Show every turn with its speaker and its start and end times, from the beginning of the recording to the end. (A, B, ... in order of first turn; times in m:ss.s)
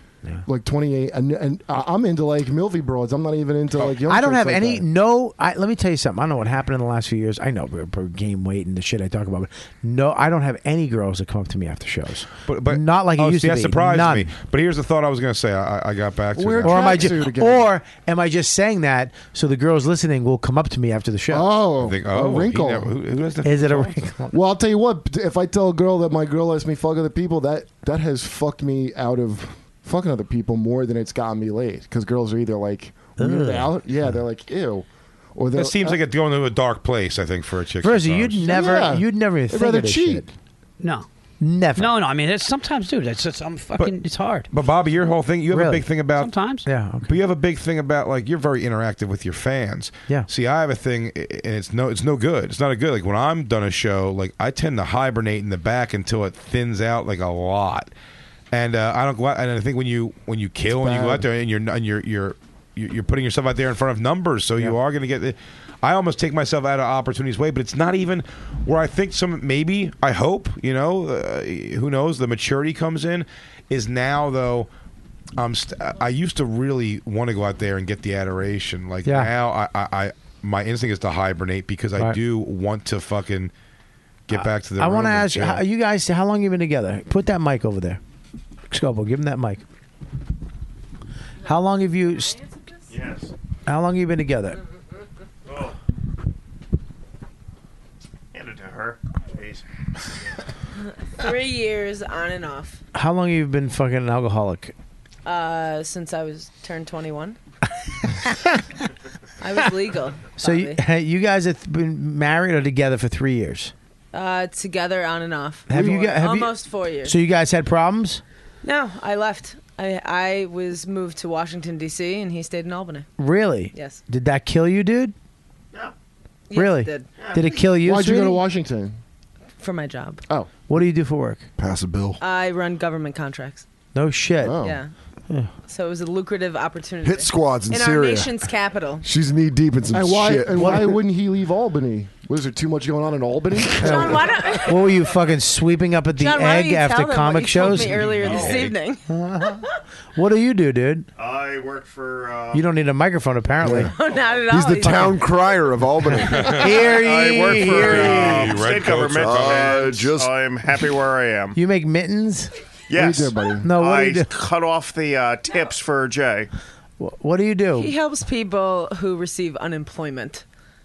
0:00.5-0:04.8 A
0:04.1-0:14.3 B
0:12.5-0:17.0 C
0:16.4-0:17.7 A
0:16.6-0:21.5 B
0:21.3-0:22.9 A
0:21.8-0:24.1 C
0:23.4-0:24.3 B
0:24.3-0:36.0 A
0:33.2-0:33.7 B
0:35.6-0:38.4 C
0:37.8-0:40.3 B
0:38.4-0:40.3 A
0:40.8-0:41.1 D
0:41.4-0:42.0 B
0:41.8-0:44.5 D
0:44.5-0:46.3 C
0:45.5-0:45.9 B
0:46.2-0:46.7 D
0:46.7-0:47.1 B
0:47.1-0:57.9 C
0:58.5-1:14.7 C
1:00.8-1:01.2 A
1:15.4-1:23.5 C
1:19.0-1:19.3 B
1:24.3-1:25.6 C
1:24.3-1:28.0 B
1:28.7-1:29.6 B
1:31.4-1:32.4 B
1:32.9-1:33.3 E
1:33.7-1:34.6 B
1:35.5-1:35.8 E
1:38.3-1:39.6 E
1:41.0-1:42.8 F
1:43.0-1:44.7 B
1:45.2-1:47.4 F
1:48.0-1:48.6 B
1:49.4-1:50.8 F
1:50.4-1:53.7 B
1:54.1-1:57.2 F
1:55.7-1:58.2 B
1:55.7-1:56.1 A
1:58.6-2:03.1 F
2:03.2-2:05.1 B
2:03.7-2:04.0 F
2:06.5-2:07.1 F
2:06.6-2:08.4 B
2:07.2-2:07.5 E
2:07.8-2:09.0 A
2:09.6-2:10.2 F
2:10.7-2:11.4 B
2:11.6-2:12.2 G
2:12.2-2:13.7 F
2:14.0-2:14.6 B
2:14.4-2:14.8 A
2:14.6-2:14.9 F
2:15.7-2:19.0 F
2:17.0-2:18.4 G
2:19.0-2:21.0 G
2:19.9-2:24.4 A
2:20.6-2:20.9 B
2:23.8-2:28.1 B
2:23.8-2:24.9 F
2:26.2-2:29.0 F
2:28.0-2:28.8 C
2:29.1-2:29.6 B
2:30.2-2:31.1 B
2:31.2-2:32.6 E
2:32.5-2:33.9 B
2:33.6-2:33.9 G
2:33.8-2:35.2 F
2:34.5-2:36.7 G
2:36.3-2:36.7 C
2:36.4-2:38.5 B
2:36.6-2:41.6 E
2:37.7-2:39.9 C
2:38.9-2:40.3 G
2:41.5-2:42.5 B
2:42.9-2:46.5 E
2:42.9-2:43.7 A
2:43.6-2:44.3 B
2:47.0-2:47.9 B
2:47.8-2:50.4 F